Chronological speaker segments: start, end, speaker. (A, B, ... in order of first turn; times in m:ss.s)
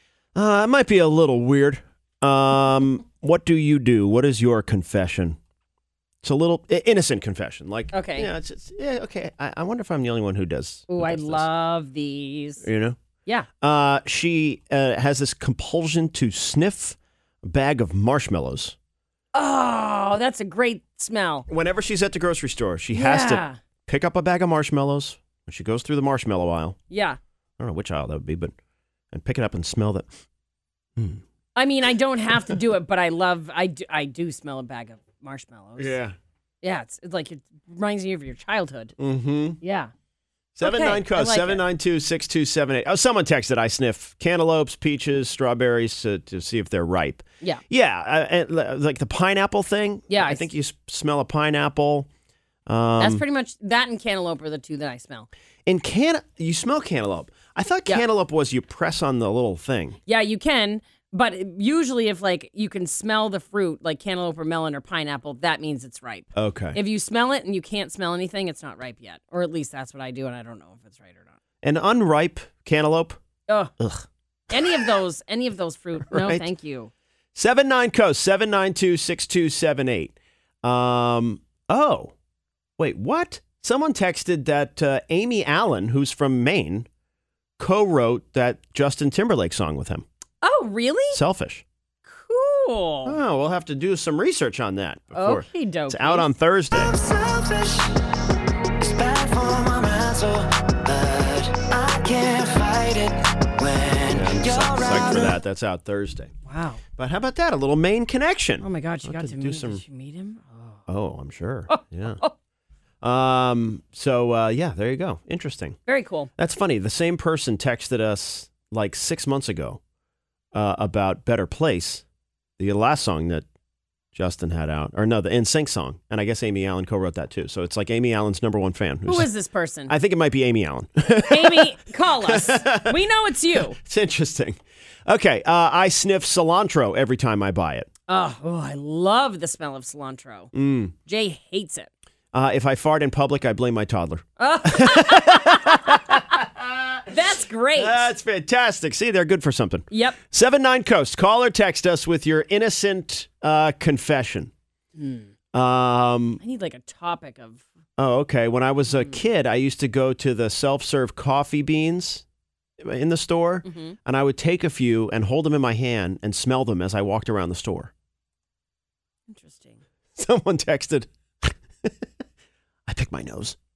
0:00.3-0:05.4 A
0:06.2-0:11.5 A
0:07.9-0:08.3 B
0:10.9-0:12.6 B
0:12.6-0:13.0 A
0:13.6-0:18.8 A
0:19.3-0:21.5 B
0:21.5-0:26.8 A
0:22.9-0:23.6 B
0:26.9-0:27.2 B
0:27.6-0:28.5 A
0:29.1-0:30.1 A
0:31.0-0:31.2 A
0:31.6-0:35.9 B
0:35.8-0:36.1 A
0:36.6-0:38.9 B
0:39.0-0:39.6 A
0:39.6-0:39.9 B
0:40.6-0:52.1 A
0:40.6-0:41.6 B
0:50.1-0:50.5 B
0:52.7-0:53.2 A
0:53.0-0:55.3 B
0:55.6-1:00.0 A
1:00.1-1:11.3 B
1:06.3-1:06.8 A
1:11.6-1:13.2 A
1:13.5-1:13.7 B
1:13.8-1:14.9 A
1:14.5-1:16.9 B
1:16.1-1:16.4 A
1:17.3-1:22.1 A
1:22.8-1:26.9 A
1:27.6-1:30.0 A
1:30.4-1:31.2 B
1:31.1-1:31.6 A
1:32.1-1:33.2 B
1:33.0-1:37.0 A
1:35.1-1:36.3 B
1:36.9-1:38.1 C
1:38.7-1:45.3 C
1:44.1-1:46.3 A
1:46.4-1:46.8 B
1:47.0-1:49.8 A
1:48.6-1:50.8 B
1:50.9-1:52.2 A
1:51.7-1:52.3 B
1:53.0-1:55.8 A
1:55.8-1:56.3 B
1:56.4-1:59.8 A
2:00.5-2:02.0 A
2:02.6-2:03.4 A
2:04.1-2:09.3 A
2:09.0-2:09.9 B
2:09.9-2:13.0 A
2:11.2-2:13.8 B
2:13.5-2:17.9 A
2:18.1-2:20.5 B
2:20.5-2:20.9 A
2:21.1-2:21.9 B
2:22.3-2:27.1 A
2:24.4-2:26.2 B
2:27.1-2:28.1 B
2:27.8-2:34.5 A
2:29.9-2:30.2 B
2:35.0-2:35.3 B
2:35.5-2:36.4 A
2:36.4-2:37.6 B
2:38.0-2:42.2 A
2:38.9-2:39.2 B
2:42.8-2:47.9 A
2:43.6-2:44.0 B
2:49.3-2:49.8 B
2:50.2-2:51.5 A
2:52.9-2:53.6 A